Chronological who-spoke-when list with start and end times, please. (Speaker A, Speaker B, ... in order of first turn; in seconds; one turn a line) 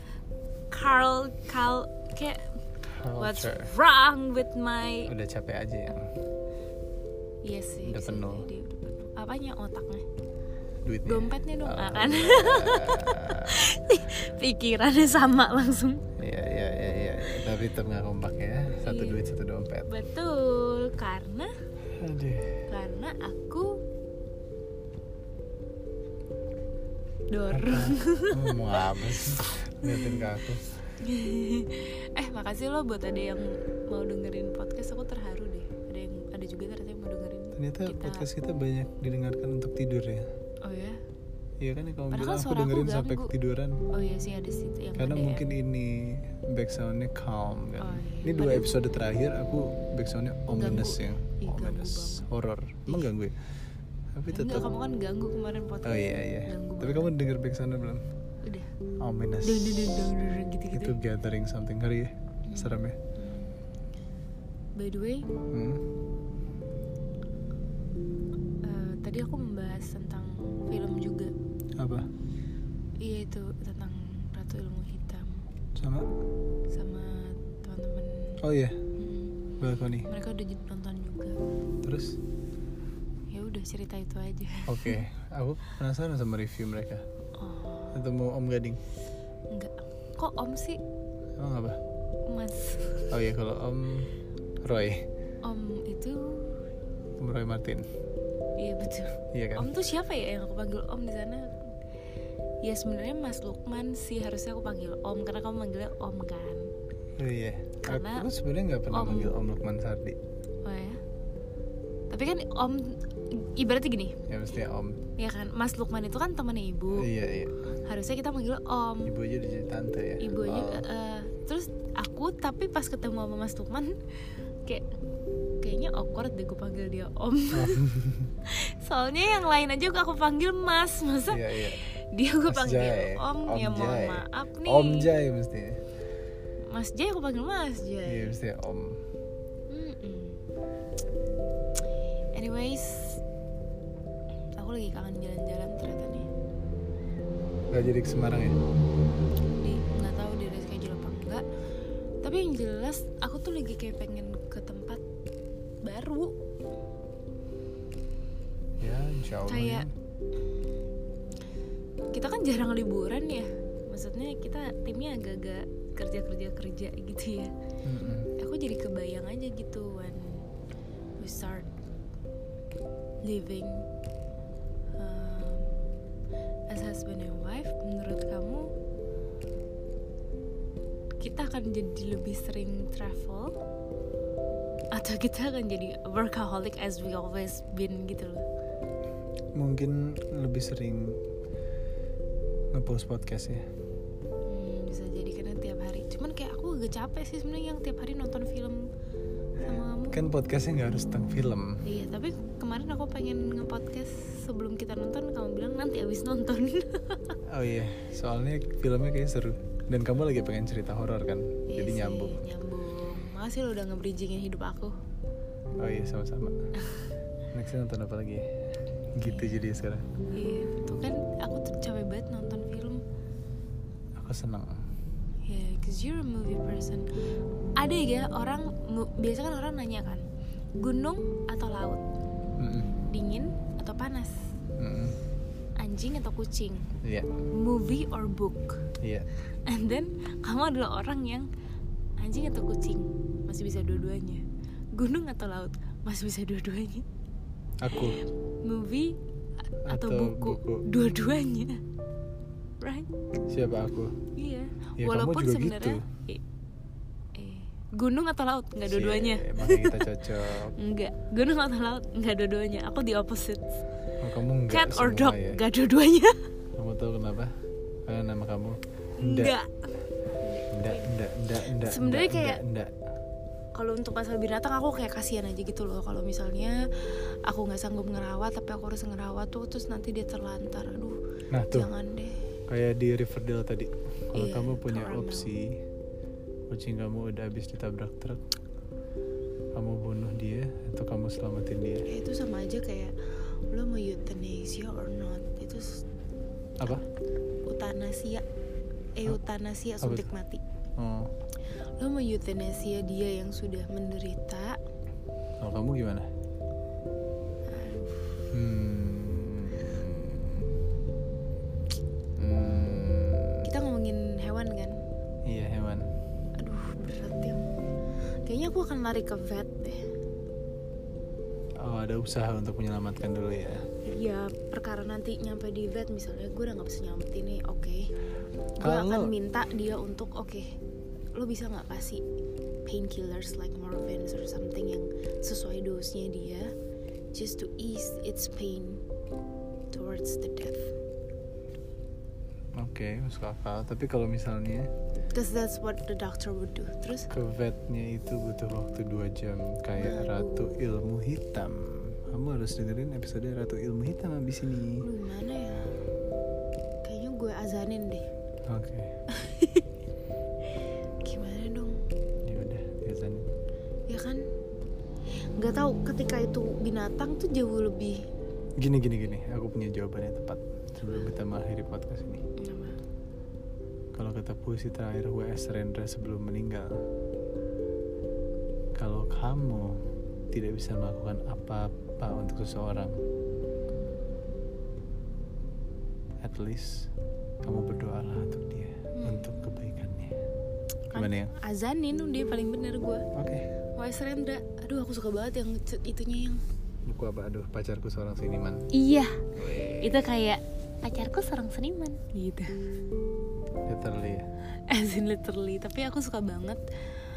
Speaker A: 0.7-2.4
Speaker B: 2.8-3.7
Speaker A: 3.1-5.1
Speaker B: 5.0-6.1
Speaker A: 7.4-10.0
Speaker B: 7.8-8.5
Speaker B: 10.8-13.7
Speaker A: 11.1-16.1
Speaker B: 16.2-19.9
Speaker A: 18.8-19.2
Speaker A: 19.9-21.5
Speaker B: 21.9-22.6
Speaker A: 22.7-23.8
Speaker A: 27.3-28.8
Speaker B: 27.5-30.7
Speaker A: 29.8-30.3
Speaker A: 31.0-38.3
Speaker B: 37.5-40.3
Speaker A: 40.6-41.0
Speaker B: 41.6-43.8
Speaker A: 42.1-43.3
Speaker A: 43.9-45.5
Speaker B: 45.0-53.4
Speaker A: 47.8-48.7
Speaker A: 50.5-52.3
Speaker B: 54.1-54.7
Speaker A: 54.3-57.1
Speaker B: 55.8-58.0
Speaker A: 58.4-58.7
Speaker B: 59.0-60.0
Speaker A: 59.4-61.0
Speaker B: 60.7-63.0
Speaker A: 62.5-63.6
Speaker A: 64.8-65.3
Speaker B: 65.5-65.8
Speaker A: 68.6-71.3
Speaker B: 71.8-72.1
Speaker A: 73.0-75.5
Speaker B: 75.8-76.1
Speaker A: 76.7-78.4
Speaker B: 78.4-78.8
Speaker A: 79.0-79.4
Speaker B: 79.6-80.1
Speaker A: 80.1-81.4
Speaker B: 81.8-82.2
Speaker A: 83.3-85.0
Speaker B: 84.7-87.0
Speaker A: 87.4-88.0
Speaker B: 87.9-88.8
Speaker A: 89.5-90.8
Speaker B: 91.4-91.8
Speaker A: 92.3-93.1
Speaker B: 93.1-94.1
Speaker B: 94.6-95.0
Speaker A: 95.4-96.6
Speaker B: 97.2-97.8
Speaker A: 98.6-101.5
Speaker B: 99.3-99.7
Speaker A: 102.6-106.7
Speaker B: 107.2-110.2
Speaker A: 107.8-108.3
Speaker A: 108.9-109.3
Speaker A: 110.6-111.0
Speaker A: 112.1-114.2
Speaker B: 114.3-115.0
Speaker A: 115.2-117.1
Speaker B: 116.9-117.5
Speaker A: 117.8-119.1
Speaker B: 119.0-120.8
Speaker A: 120.2-124.0
Speaker A: 125.6-127.8
Speaker B: 127.5-128.3
Speaker A: 128.4-135.1
Speaker B: 131.3-131.8
Speaker B: 132.5-135.8
Speaker A: 136.7-138.3
Speaker B: 138.0-139.0
Speaker A: 139.7-140.4
Speaker A: 142.3-143.2
Speaker A: 144.6-146.3
Speaker B: 147.7-148.6
Speaker A: 149.6-151.4
Speaker A: 152.2-155.0
Speaker A: 155.8-156.3
Speaker B: 158.8-159.9
Speaker A: 159.5-159.9
Speaker A: 162.1-167.5
Speaker B: 167.8-168.3
Speaker A: 168.3-170.4
Speaker A: 171.2-171.7
Speaker A: 173.2-173.8
Speaker A: 175.0-175.7
Speaker A: 176.7-178.6
Speaker A: 181.2-183.5
Speaker A: 184.9-188.4
Speaker B: 189.6-191.2
Speaker B: 192.7-193.6
Speaker A: 194.5-198.9
Speaker A: 199.6-200.2
Speaker B: 199.7-201.8
Speaker A: 201.8-207.4
Speaker B: 207.4-212.4
Speaker A: 211.7-214.9
Speaker B: 215.8-216.6
Speaker B: 217.5-218.4
Speaker B: 219.1-220.1
Speaker A: 219.2-219.5
Speaker A: 220.3-223.0
Speaker B: 224.2-224.8
Speaker A: 225.5-227.1
Speaker A: 227.8-230.2
Speaker A: 230.8-232.0
Speaker B: 232.6-232.9
Speaker A: 233.1-234.4
Speaker B: 234.8-235.2
Speaker A: 235.8-236.9
Speaker B: 237.0-237.3
Speaker A: 237.5-238.8
Speaker B: 239.0-239.3
Speaker A: 239.6-241.5
Speaker A: 242.2-244.4
Speaker A: 244.9-247.0
Speaker B: 247.8-248.2
Speaker A: 247.9-249.2
Speaker B: 249.8-250.8
Speaker A: 249.8-251.8
Speaker A: 252.8-253.1
Speaker B: 253.5-254.2
Speaker A: 254.3-256.4
Speaker B: 255.0-256.0
Speaker A: 257.3-260.1
Speaker B: 258.9-260.7
Speaker A: 260.8-263.6
Speaker B: 264.2-265.6
Speaker A: 264.7-266.4
Speaker B: 266.8-267.5
Speaker B: 268.1-269.5
Speaker A: 269.2-271.1
Speaker B: 270.7-272.9
Speaker A: 271.7-272.6
Speaker A: 273.7-281.1
Speaker B: 281.5-281.9
Speaker A: 281.7-282.4
Speaker B: 282.7-285.8
Speaker A: 284.3-285.5
Speaker B: 286.7-288.4
Speaker B: 289.7-292.1
Speaker A: 292.0-293.1
Speaker A: 293.7-296.0
Speaker B: 296.8-297.0
Speaker A: 297.6-298.4
Speaker A: 299.1-300.6
Speaker B: 300.0-300.3
Speaker B: 301.0-301.3
Speaker A: 302.0-304.8
Speaker B: 305.6-306.3
Speaker A: 307.7-308.4
Speaker B: 308.5-310.7
Speaker B: 312.4-313.6
Speaker A: 313.6-315.0
Speaker B: 315.4-316.1
Speaker A: 316.6-317.6
Speaker A: 318.4-320.0
Speaker B: 321.8-323.9
Speaker A: 324.0-328.1
Speaker A: 328.8-330.7
Speaker B: 328.8-329.3
Speaker A: 331.3-332.2
Speaker A: 332.9-336.7
Speaker A: 337.3-339.0
Speaker A: 339.9-340.9
Speaker B: 342.7-344.9
Speaker A: 345.1-347.3
Speaker B: 347.3-355.1
Speaker A: 349.9-350.8
Speaker A: 355.0-355.9
Speaker A: 357.0-358.3
Speaker B: 358.7-359.2
Speaker A: 359.3-359.9
Speaker A: 361.2-362.0
Speaker B: 362.4-363.5
Speaker A: 364.1-364.4
Speaker A: 365.6-368.2
Speaker B: 368.8-372.4
Speaker A: 372.6-373.0
Speaker B: 374.1-376.9
Speaker B: 378.9-383.1
Speaker B: 386.4-387.1
Speaker B: 387.6-390.3
Speaker A: 389.1-389.5
Speaker B: 391.1-391.5
Speaker A: 391.1-393.2
Speaker B: 393.3-393.7
Speaker A: 394.0-396.6
Speaker B: 397.1-398.9
Speaker A: 398.9-402.8
Speaker B: 399.6-400.2
Speaker B: 403.9-404.5
Speaker A: 404.9-406.8